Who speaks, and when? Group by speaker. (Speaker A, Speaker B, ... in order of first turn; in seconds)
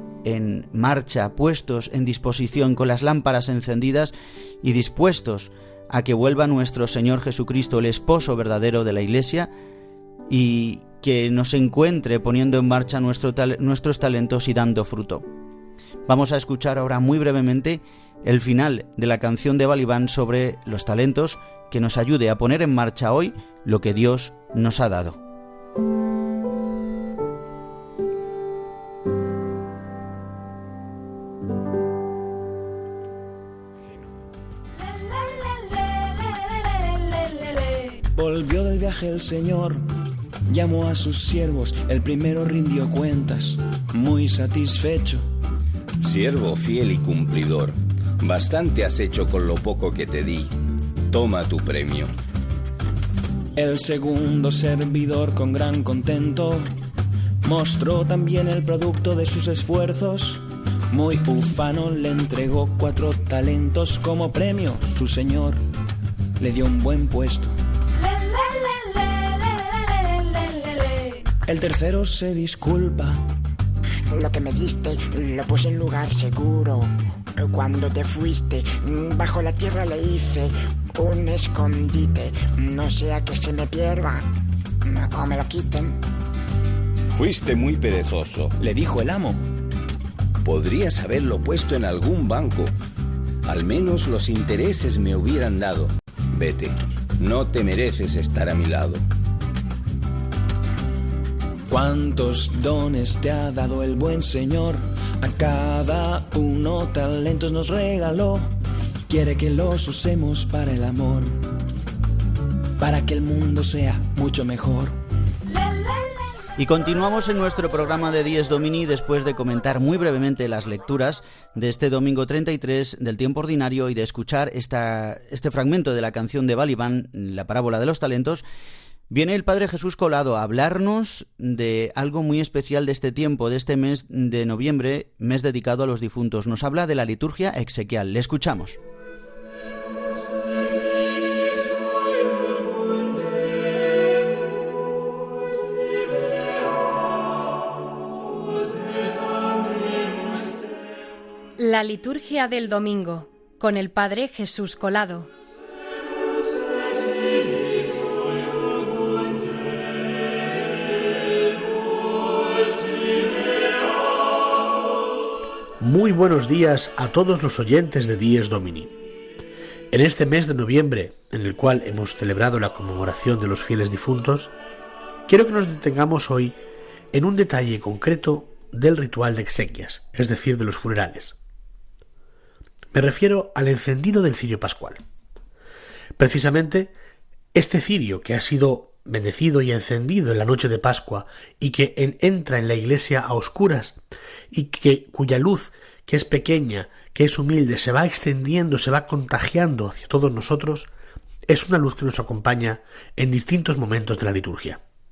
Speaker A: 0.2-9.5, 10.3-15.2, 16.1-25.2, 116.6-128.4, 129.1-138.8
Speaker B: 38.1-39.9, 40.5-45.2, 53.6-56.7, 57.4-65.6, 66.4-67.5, 71.5-73.2, 88.6-89.4, 101.7-108.5, 109.1-111.5, 112.8-115.0
Speaker C: 46.0-50.6, 51.1-52.1, 87.1-88.6, 90.4-92.7, 93.5-99.0
Speaker D: 74.1-84.2, 84.9-86.0
Speaker E: 151.6-155.3
Speaker F: 165.8-168.9, 169.9-174.5, 175.3-176.6, 177.1-181.4, 182.9-185.0, 186.2-186.9, 187.5-194.0, 194.5-200.9, 201.5-204.8